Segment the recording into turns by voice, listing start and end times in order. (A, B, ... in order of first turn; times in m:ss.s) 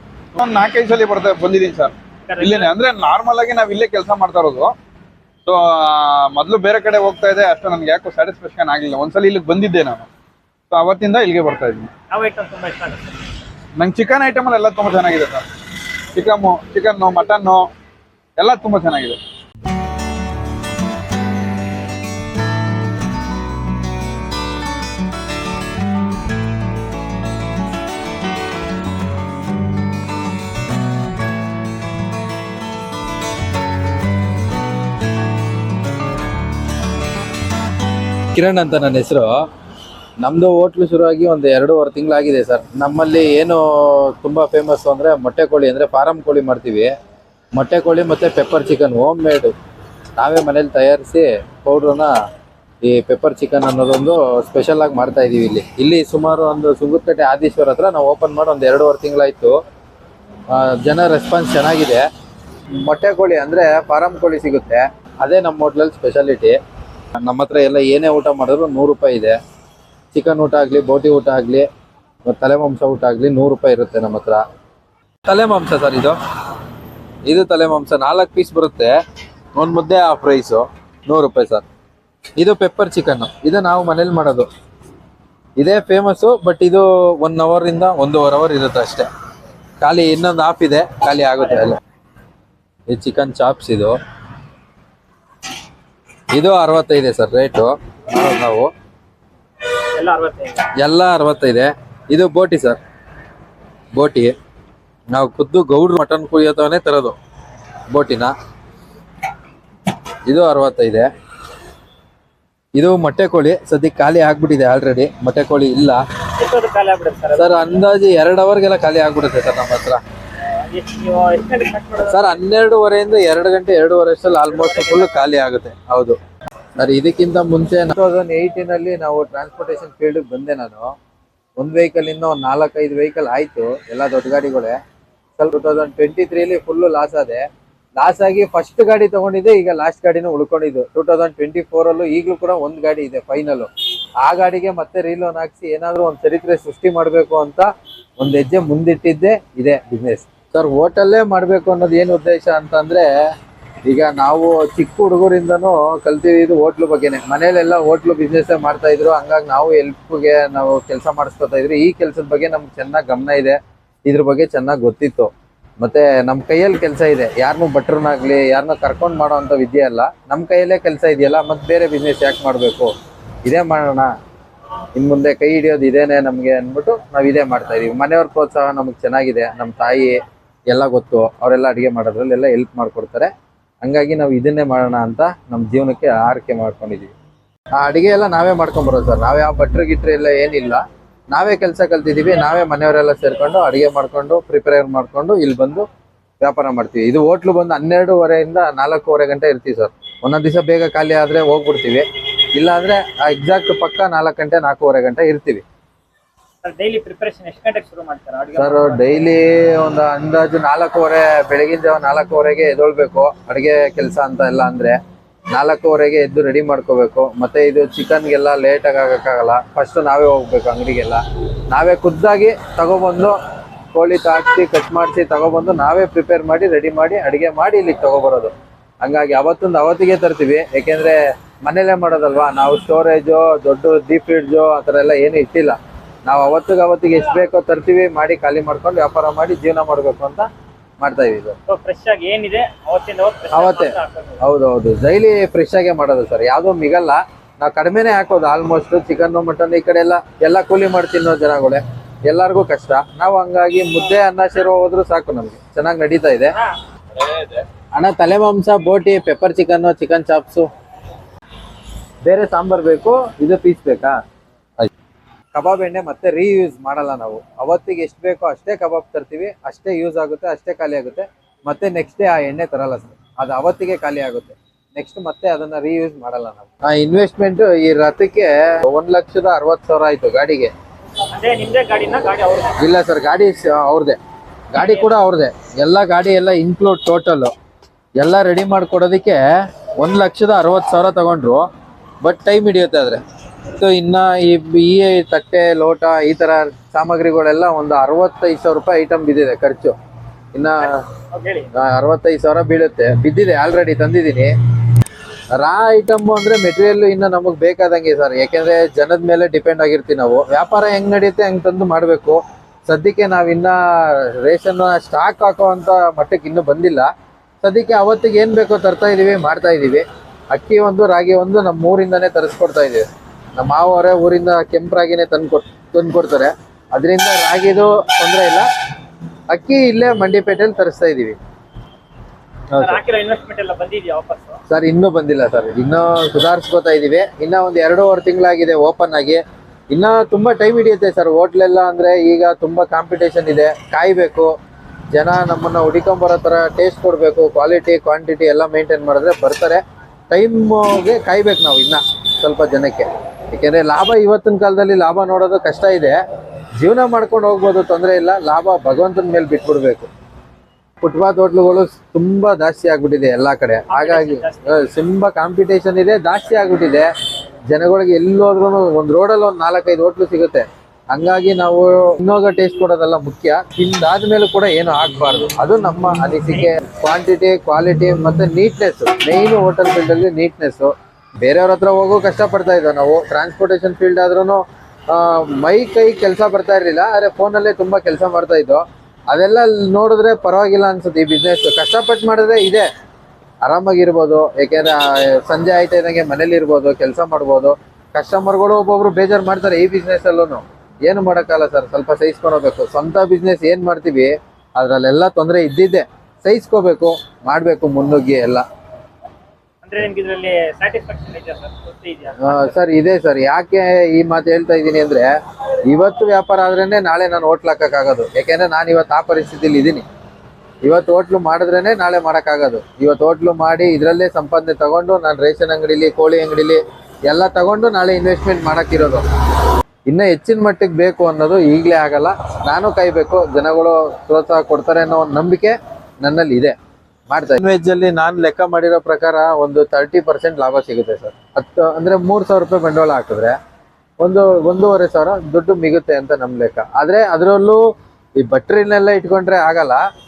0:00.3-0:04.7 A
0:02.3-0:02.7 B
0:05.4-0:10.1 A
0:10.7-0:11.9 A
0:12.1-0:13.2 B
0:13.8-0:15.4 A
0:16.1-0:17.7 A
0:18.4-0:19.2 A
0:38.3-0:39.4 C
0:40.2-0:46.9 C
0:47.5-0:49.5 C
0:50.2-0:52.1 C
0:52.8-0:59.6 C
1:00.5-1:02.0 C
1:02.8-1:06.6 C
1:07.2-1:09.4 C
1:10.1-1:11.7 C
1:12.3-1:14.4 C
1:15.2-1:16.2 C
1:17.3-1:18.9 C
1:19.6-1:21.6 C
1:22.4-1:24.5 C
1:25.6-1:29.1 C
1:29.8-1:31.8 C
1:31.4-1:31.7 B
1:32.9-1:33.9 C
1:36.3-1:38.7 C
1:39.8-1:40.7 B
1:40.8-1:42.8 C
1:43.9-1:44.3 C
1:45.1-1:47.1 C
1:47.9-1:48.3 C
1:50.3-1:51.1 C
1:52.7-1:56.0 C
1:56.4-1:57.8 B
1:57.4-2:00.0 C
2:00.5-2:02.4 B
2:02.2-2:06.2 C
2:04.4-2:05.3 B
2:06.8-2:10.9 C
2:11.6-2:14.8 C
2:15.4-2:17.4 C
2:18.0-2:23.7 C
2:24.2-2:33.1 C
2:33.9-2:52.9 C
2:53.4-2:54.1 C
2:55.0-3:00.2 C
3:00.7-3:03.3 C
3:03.8-3:07.1 C
3:07.8-3:15.9 C
3:16.4-3:22.0 C
3:22.6-3:25.6 C
3:26.6-3:29.3 B
3:28.7-3:35.0 C
3:35.5-3:43.4 C
3:43.9-4:00.4 C
4:01.0-4:01.6 C
4:01.7-4:04.4 B
4:04.4-4:16.6 C
4:17.9-4:20.7 C
4:22.2-4:24.2 C
4:25.5-4:40.7 C
4:41.3-4:42.8 B
4:42.8-4:44.2 C
4:44.7-4:47.5 C
4:44.8-4:45.2 B
4:48.2-4:49.4 C
4:50.0-4:51.6 C
4:52.2-4:53.2 C
4:53.7-4:59.9 C
5:00.5-5:01.0 C
5:01.3-5:01.7 B
5:01.8-5:04.5 C
5:05.5-5:17.1 C
5:17.6-5:28.7 C
5:29.5-5:31.4 C
5:32.7-5:34.6 B
5:34.7-5:44.5 C
5:45.1-5:56.2 C
5:56.8-6:00.1 C
6:01.0-6:07.1 C
6:03.9-6:04.8 B
6:07.7-6:20.9 C
6:16.5-6:16.8 B
6:21.4-6:32.9 C
6:33.6-6:48.6 C
6:49.8-6:52.7 B
6:52.5-6:55.3 C
6:55.9-7:00.0 C
7:00.8-7:09.2 C
7:10.1-7:16.7 C
7:17.3-7:23.6 C
7:24.2-7:27.8 C
7:28.4-7:30.0 C